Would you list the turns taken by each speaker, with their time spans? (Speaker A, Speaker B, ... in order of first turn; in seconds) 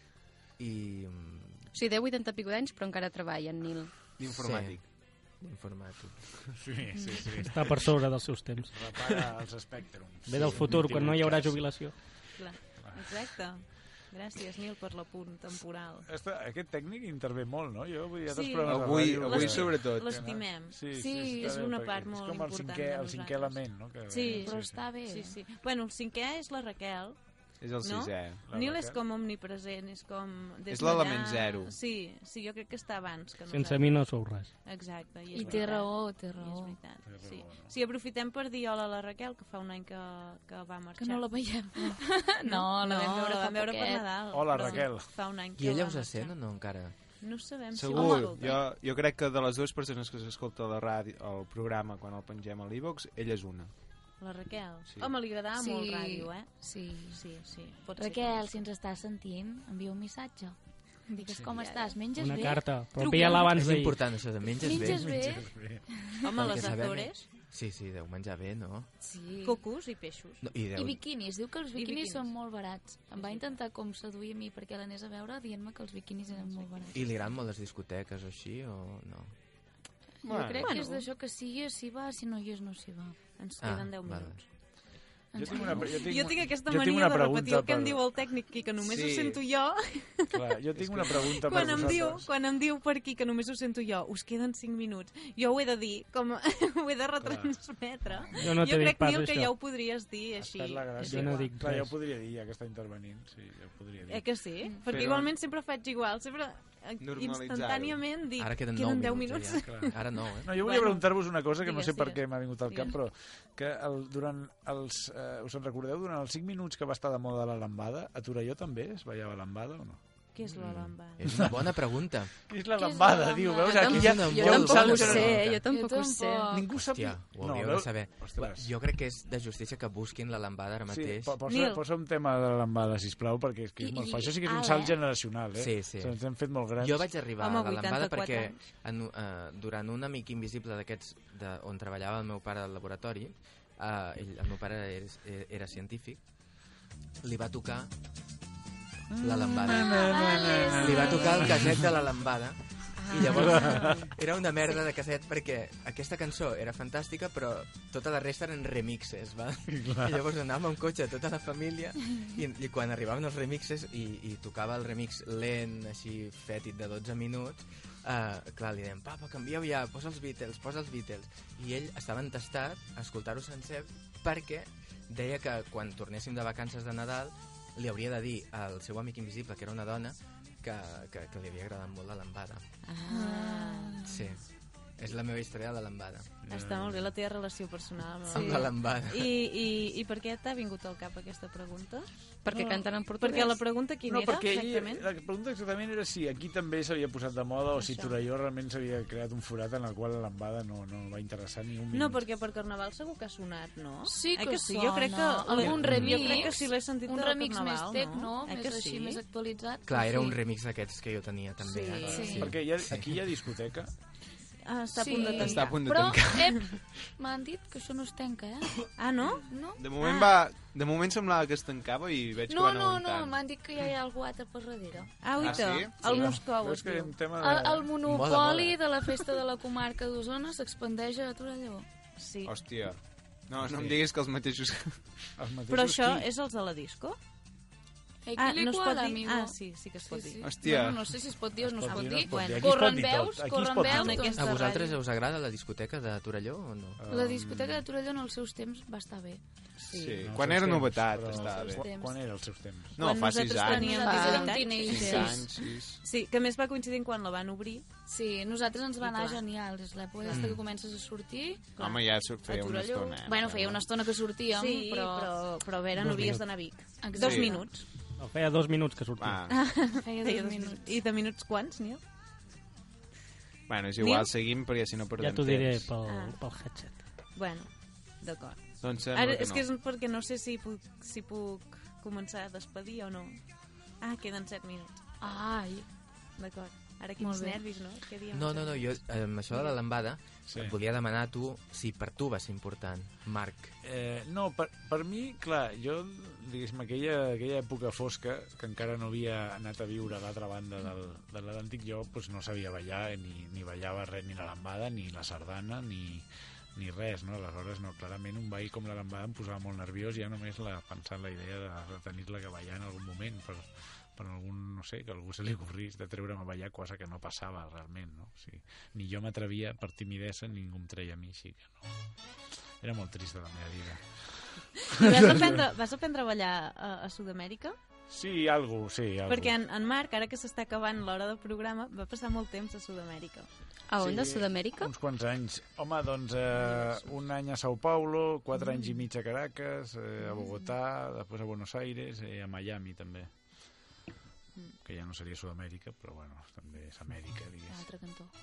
Speaker A: 0.6-1.7, 4.3-4.8, 5.4-6.4, 10.3-10.9, 45.6-46.9, 63.5-65.2, 66.3-68.9, 70.4-71.0, 76.9-79.3, 83.6-84.4, 108.4-110.5, 120.5-122.3, 123.8-125.6, 126.8-131.3, 135.5-146.2, 147.2-147.9, 149.2-150.2, 150.7-182.6, 184.0-184.4, 185.0-186.3, 188.3-189.3, 205.9-206.3, 209.8-213.2, 228.0-228.8, 244.3-247.0, 260.3-260.6, 288.3-293.7
Speaker B: 1.7-4.1, 123.6-126.6, 153.0-154.1, 192.4-193.6, 254.0-255.3, 333.9-334.9
Speaker C: 4.2-4.8, 18.6-20.4, 27.6-28.4, 30.7-31.7, 47.7-53.7, 54.9-55.1, 80.2-80.8, 88.8-89.4, 90.8-91.9, 104.9-105.3, 107.0-108.0, 215.3-216.8, 219.8-223.4, 225.4-226.4, 232.4-235.3, 240.4-241.1, 249.9-251.9, 252.9-256.0, 261.8-263.8, 267.1-267.5, 269.2-269.7, 273.7-275.9, 278.8-279.6
Speaker D: 6.5-7.9, 8.7-13.2, 16.0-24.9, 28.5-29.0, 35.4-35.7, 37.0-37.7, 44.3-45.1, 64.8-65.9, 85.3-88.0, 90.3-92.3, 97.2-97.5, 100.4-104.3, 109.7-120.0, 121.2-121.6, 122.4-125.5, 126.5-128.7, 130.9-137.1, 149.1-151.9, 153.1-154.1, 159.7-160.2, 186.4-187.1, 192.5-193.5, 194.0-202.2, 205.8-206.2, 212.1-213.9, 225.5-227.9, 233.6-234.0, 235.4-236.3, 241.6-244.4, 247.0-247.6, 250.2-253.0, 290.5-290.8, 293.8-321.9, 322.8-325.6, 328.1-329.5, 334.0-343.8, 344.8-347.9
Speaker E: 7.4-8.7, 10.2-12.0, 33.5-34.5, 62.1-64.0, 98.4-99.5, 101.0-102.0, 266.0-266.6, 268.2-269.5, 275.2-277.1
Speaker F: 12.3-16.1, 18.3-46.3, 47.2-48.6, 54.2-56.5, 57.1-58.6, 61.2-62.0, 62.9-63.5, 66.2-67.3, 69.4-70.4, 71.7-72.3, 73.1-73.6, 76.3-77.0, 80.6-81.1, 83.4-84.5, 85.5-90.5, 91.1-101.5, 104.1-112.9, 120.3-121.2, 122.8-123.9, 131.5-131.8, 137.4-138.6, 182.8-184.1, 186.5-192.1, 193.2-195.0, 197.8-198.1, 201.9-209.2, 211.6-212.4, 214.6-216.4, 219.0-220.4, 225.2-227.1, 232.2-232.5, 235.7-237.2, 238.4-240.6, 243.8-245.0, 249.8-250.3, 253.0-257.9, 259.0-259.4, 261.8-263.3, 264.5-267.9, 269.5-272.0, 274.0-274.3, 276.0-285.0, 286.4-289.0, 324.9-327.8, 329.3-333.5, 336.6-337.1
Speaker G: 20.9-21.5, 24.3-25.4, 35.3-36.8, 41.0-44.8, 48.0-48.2, 55.5-57.2, 58.0-63.4, 64.6-65.5, 69.0-69.6, 70.8-77.0, 80.2-83.2, 85.3-86.0, 125.7-126.6, 133.8-134.6, 149.8-151.6, 183.1-184.2, 204.1-210.4, 212.1-212.5, 214.9-219.8, 222.5-225.3, 227.4-231.8, 238.2-244.4, 247.1-249.4, 251.3-252.2, 253.6-255.4, 258.1-261.6, 263.2-265.3, 267.0-267.7, 270.0-271.0, 285.2-285.9, 287.2-287.6, 347.7-348.3